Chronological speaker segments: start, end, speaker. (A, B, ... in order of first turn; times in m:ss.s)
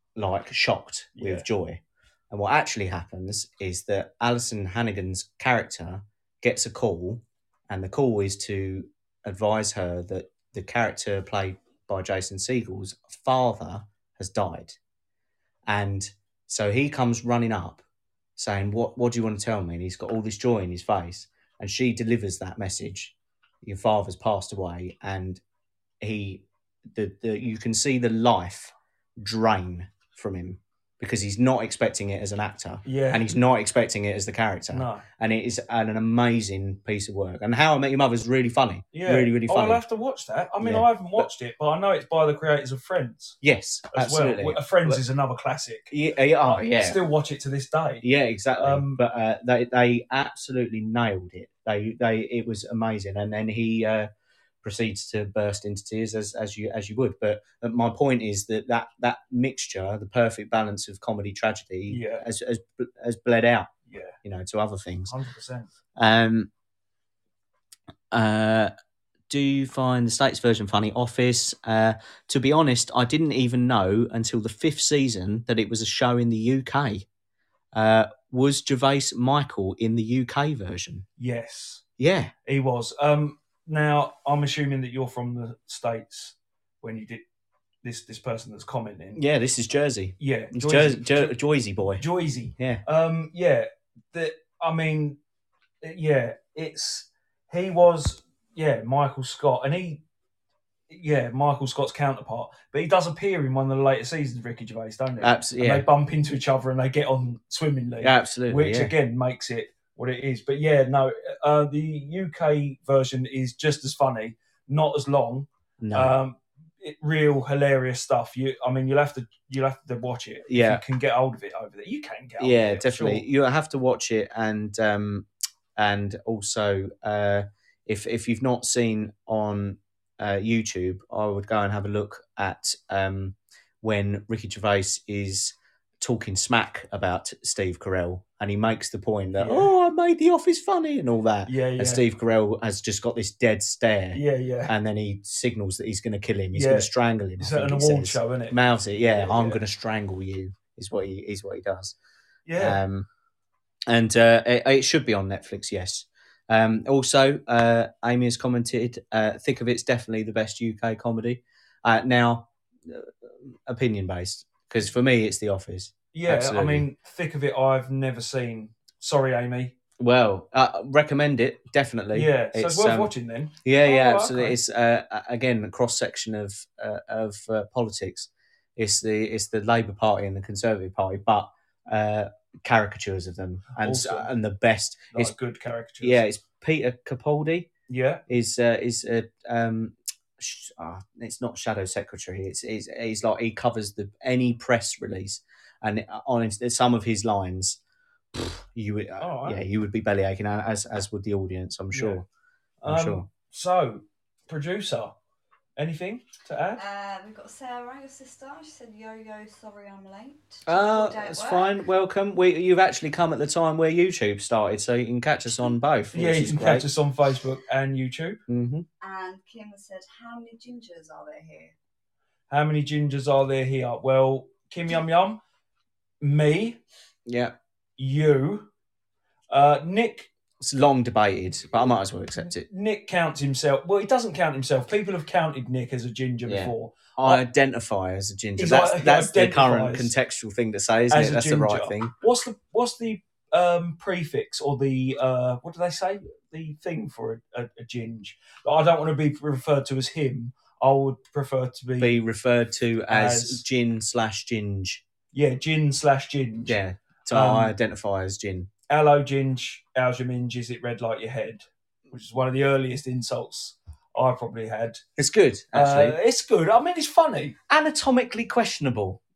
0:00.2-0:14.8 A
0:01.2-0:01.4 B
0:15.7-0:17.8 A
0:18.4-0:25.4 A
0:26.0-0:39.8 A
0:32.8-0:33.3 B
0:34.7-0:35.0 B
0:38.9-0:43.4 B
0:40.6-0:41.3 A
0:43.4-0:45.0 A
0:43.9-0:45.9 B
0:45.9-0:47.0 A
0:46.4-0:48.0 B
0:48.0-0:54.1 A
0:48.6-0:49.0 B
0:54.6-1:03.7 A
1:01.9-1:02.2 B
1:03.9-1:04.2 B
1:04.2-1:05.1 A
1:05.1-1:05.7 B
1:06.0-1:06.5 A
1:08.1-1:08.7 A
1:09.3-1:17.1 A
1:17.7-1:21.0 A
1:21.2-1:21.8 B
1:22.0-1:22.3 A
1:22.5-1:27.2 B
1:27.8-1:29.2 B
1:29.2-1:32.0 A
1:30.2-1:31.4 B
1:32.0-1:35.2 B
1:32.6-1:32.8 A
1:35.8-1:40.0 B
1:40.9-2:03.2 B
1:45.2-1:45.9 A
1:48.0-1:48.9 A
1:55.8-1:56.2 A
2:00.5-2:00.8 A
2:02.4-2:32.0 A
2:19.4-2:19.7 B
2:21.5-2:22.0 B
2:24.1-2:24.7 B
2:26.5-2:29.6 B
2:32.5-2:32.8 B
2:32.6-2:33.1 A
2:33.9-2:46.8 A
2:46.1-2:49.7 B
2:50.0-2:53.1 A
2:52.1-2:54.6 B
2:53.6-3:05.3 A
3:03.8-3:04.3 B
3:05.1-3:06.2 B
3:06.0-3:07.7 A
3:07.9-3:08.2 B
3:08.3-3:17.8 A
3:18.4-3:22.2 A
3:19.2-3:19.6 B
3:21.9-3:22.2 B
3:22.8-3:25.1 B
3:22.9-3:23.3 A
3:25.8-3:26.8 B
3:26.8-3:31.8 C
3:30.7-3:36.9 A
3:36.1-3:38.4 B
3:38.5-3:38.9 A
3:39.0-3:41.8 C
3:42.5-3:45.4 B
3:46.2-3:46.8 B
3:47.3-3:47.6 A
3:48.0-3:48.7 B
3:49.5-3:50.3 B
3:50.6-3:52.7 A
3:52.5-3:57.4 B
3:56.5-4:02.1 A
3:58.6-4:00.1 B
4:01.1-4:12.2 B
4:12.0-4:15.0 A
4:13.1-4:13.6 B
4:15.3-4:16.8 B
4:16.7-4:18.7 A
4:17.3-4:17.7 B
4:18.9-4:25.0 B
4:25.2-4:26.2 A
4:25.7-4:27.6 B
4:27.7-4:29.2 A